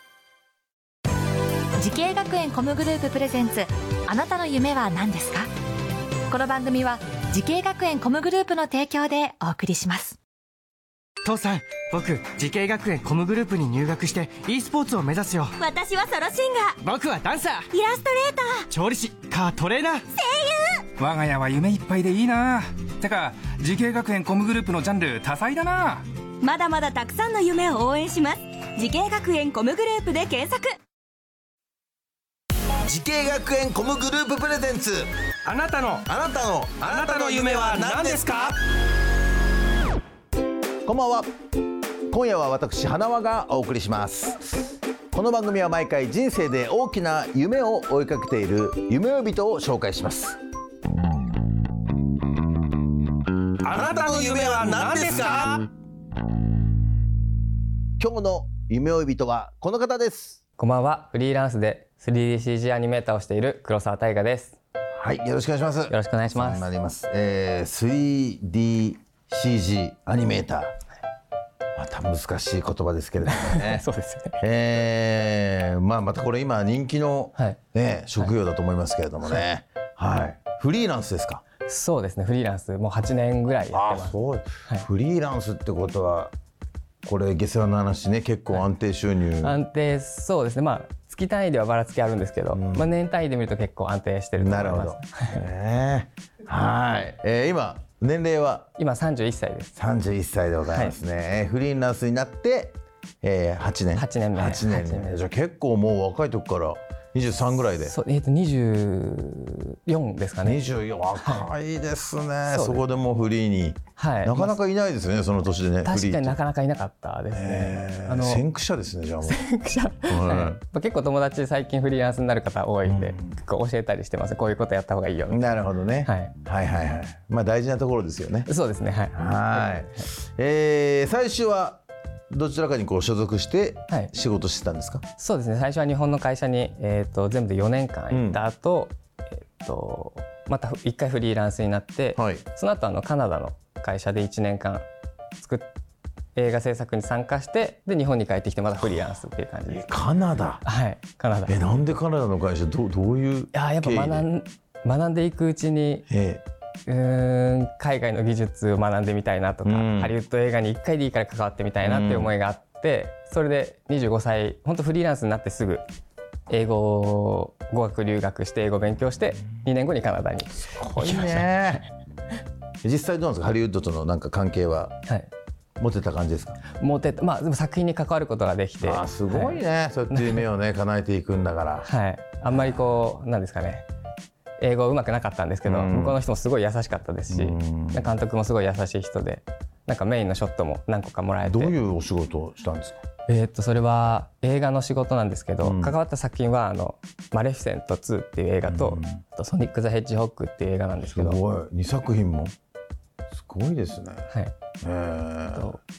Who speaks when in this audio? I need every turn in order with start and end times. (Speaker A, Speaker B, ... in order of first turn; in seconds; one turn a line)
Speaker A: 1.8-5.5
Speaker A: 6.3-10.2
Speaker B: 11.2-15.5
Speaker C: 15.6-16.8
Speaker B: 16.8-17.7
Speaker C: 17.7-18.7
Speaker B: 18.7-20.0
Speaker C: 20.1-20.8
Speaker D: 21.0-26.0
Speaker C: 26.4-30.7
Speaker E: 32.8-35.1
Speaker D: 35.5-36.0
Speaker E: 36.0-38.5
Speaker D: 36.9-38.4
Speaker E: 40.8-41.3
Speaker E: 42.1-50.4
Speaker E: 53.6-55.6
Speaker E: 58.0-60.4
Speaker F: 60.6-64.5
Speaker E: 65.0-70.7
Speaker F: 65.9-66.7
Speaker E: 71.8-73.8
Speaker F: 73.3-74.4
Speaker E: 74.4-81.4
Speaker F: 81.7-84.1
Speaker E: 83.7-86.3
Speaker E: 87.0-89.6
Speaker F: 89.4-95.4
Speaker E: 92.5-92.9
Speaker E: 94.4-98.7
Speaker F: 98.8-99.7
Speaker E: 99.8-107.9
Speaker F: 100.7-101.0
Speaker F: 103.9-105.2
Speaker F: 107.7-110.6
Speaker E: 110.4-116.3
Speaker F: 111.2-111.5
Speaker F: 112.5-112.8
Speaker F: 114.0-114.5
Speaker F: 115.8-118.4
Speaker E: 117.3-119.4
Speaker F: 119.2-125.5
Speaker E: 120.1-120.6
Speaker E: 122.8-123.2
Speaker E: 125.3-128.5
Speaker F: 126.0-126.3
Speaker F: 128.4-130.1
Speaker E: 129.1-135.0
Speaker F: 135.2-138.9
Speaker E: 138.1-138.4
Speaker F: 139.6-144.8
Speaker E: 142.2-142.4
Speaker F: 145.4-145.7
Speaker F: 146.3-149.9
Speaker E: 149.7-150.6
Speaker F: 150.6-151.6
Speaker E: 151.5-154.3
Speaker F: 153.5-156.1
Speaker E: 156.1-156.4
Speaker F: 156.9-165.8
Speaker E: 159.6-160.2
Speaker E: 161.8-162.3
Speaker F: 166.5-171.8
Speaker E: 170.8-171.9
Speaker E: 172.8-174.9
Speaker E: 175.8-176.6
Speaker F: 176.8-180.4
Speaker E: 178.8-181.9
Speaker F: 181.8-183.8
Speaker E: 182.5-183.0
Speaker F: 184.6-191.7
Speaker E: 185.6-186.2
Speaker E: 187.3-188.1
Speaker E: 191.4-193.0
Speaker F: 193.3-201.4
Speaker E: 195.6-196.0
Speaker E: 198.7-199.1
Speaker E: 201.0-202.5
Speaker E: 203.3-204.3
Speaker E: 204.8-205.7
Speaker F: 205.5-205.8